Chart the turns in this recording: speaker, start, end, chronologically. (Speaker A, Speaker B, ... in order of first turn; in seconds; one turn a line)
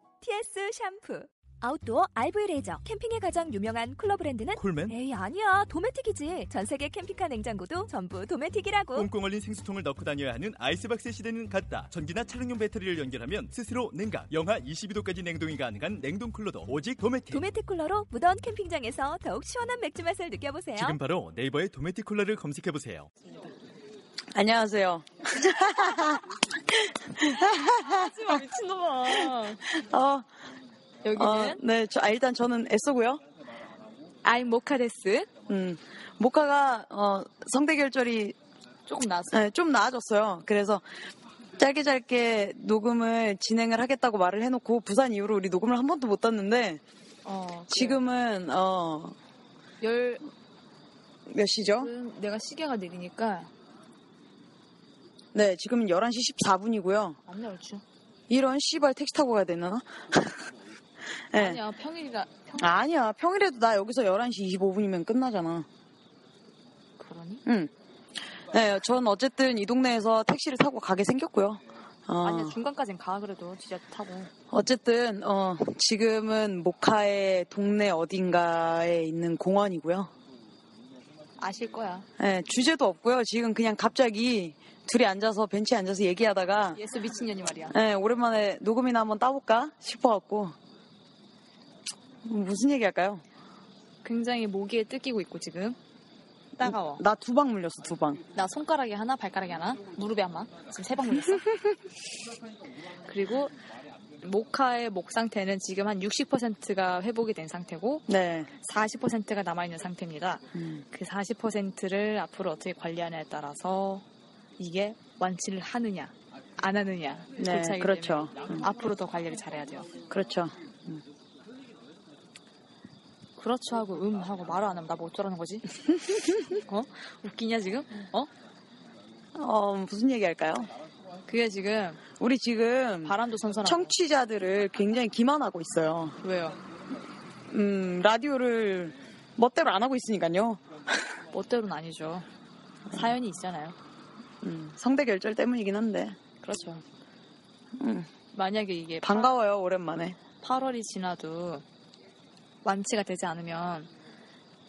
Speaker A: 0.2-9.1
Speaker B: 4.6-5.0
Speaker B: 8.9-17.4
Speaker A: 17.3-21.0
Speaker B: 20.8-23.1
Speaker C: 24.3-28.1
Speaker D: 27.7-29.7
Speaker C: 29.1-30.3
Speaker D: 31.0-31.6
Speaker C: 31.2-33.2
Speaker D: 34.2-35.3
Speaker C: 35.5-38.4
Speaker D: 38.9-39.4
Speaker C: 39.3-40.8
Speaker C: 41.6-46.8
Speaker D: 47.2-48.0
Speaker C: 47.7-49.2
Speaker D: 49.8-50.3
Speaker C: 51.3-51.9
Speaker D: 51.8-53.5
Speaker C: 55.3-57.2
Speaker D: 57.3-57.8
Speaker C: 58.3-60.4
Speaker C: 61.3-61.6
Speaker D: 61.4-62.7
Speaker C: 62.6-65.7
Speaker D: 67.0-67.4
Speaker C: 67.5-67.7
Speaker C: 68.4-72.6
Speaker D: 72.2-74.3
Speaker C: 74.5-80.1
Speaker D: 81.4-82.1
Speaker C: 82.2-86.8
Speaker D: 86.7-87.8
Speaker C: 87.7-90.6
Speaker C: 92.2-93.2
Speaker D: 94.0-95.8
Speaker C: 96.6-98.2
Speaker D: 96.6-97.0
Speaker D: 98.3-101.5
Speaker D: 102.9-103.6
Speaker D: 104.2-114.1
Speaker C: 108.1-108.5
Speaker D: 114.6-120.0
Speaker C: 117.4-118.6
Speaker C: 120.1-121.0
Speaker D: 123.4-125.7
Speaker D: 126.5-128.3
Speaker C: 129.3-130.7
Speaker D: 131.3-132.0
Speaker C: 132.2-136.2
Speaker D: 133.0-133.9
Speaker D: 136.2-136.6
Speaker C: 137.5-141.0
Speaker D: 141.3-142.3
Speaker D: 142.9-143.8
Speaker C: 144.4-146.2
Speaker D: 146.4-146.8
Speaker C: 147.8-148.1
Speaker D: 148.3-149.3
Speaker C: 149.0-150.2
Speaker D: 150.4-151.6
Speaker D: 152.6-153.9